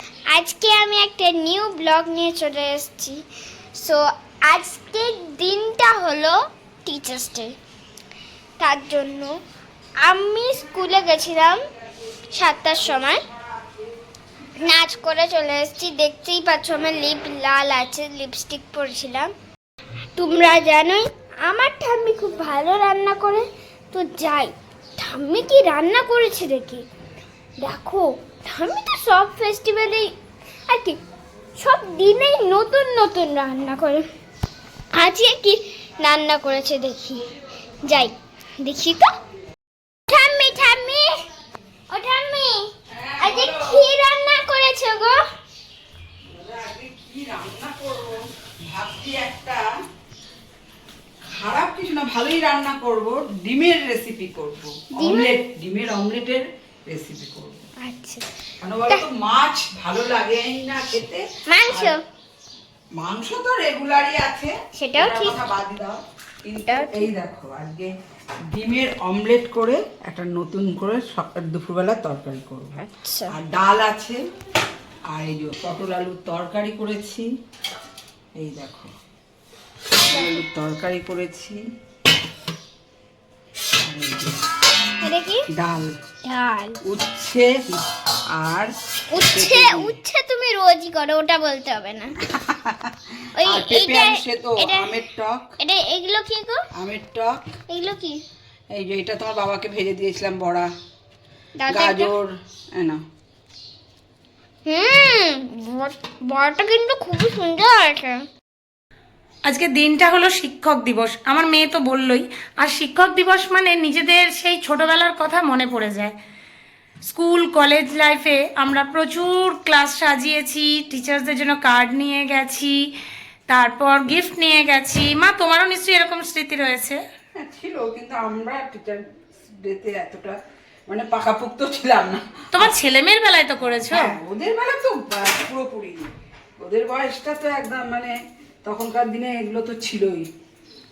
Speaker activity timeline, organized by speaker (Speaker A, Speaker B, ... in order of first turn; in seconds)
Speaker A: 0.3-3.2, 3.7-7.6, 8.6-9.4, 10.0-11.6, 12.3-13.2, 14.6-19.3, 20.2-26.9, 27.6-30.1, 30.7-31.0, 31.6-34.0, 34.9-37.2, 37.9-39.1, 40.1-41.2, 41.9-42.7, 43.2-45.2, 55.0-55.4, 57.8-58.3, 61.5-62.0, 64.8-65.4, 66.7-67.1, 72.8-73.3, 80.1-80.4, 85.0-85.5, 86.2-86.8, 89.1-92.2, 93.4-95.0, 95.6-96.7, 97.7-98.2, 101.6-102.1, 104.7-108.3
Speaker B: 42.9-43.9, 46.3-49.6, 51.3-57.6, 58.6-62.0, 63.0-67.9, 68.5-74.2, 75.1-77.3, 78.4-78.9, 80.0-81.6, 83.8-84.4, 85.5-86.0, 86.8-87.8, 88.3-88.7, 89.2-90.0, 92.2-95.6, 96.7-97.4, 98.7-100.7, 101.7-103.0, 127.4-130.4, 130.9-132.7, 133.6-140.3
Speaker C: 109.5-116.2, 117.0-122.8, 123.5-127.0, 132.5-134.1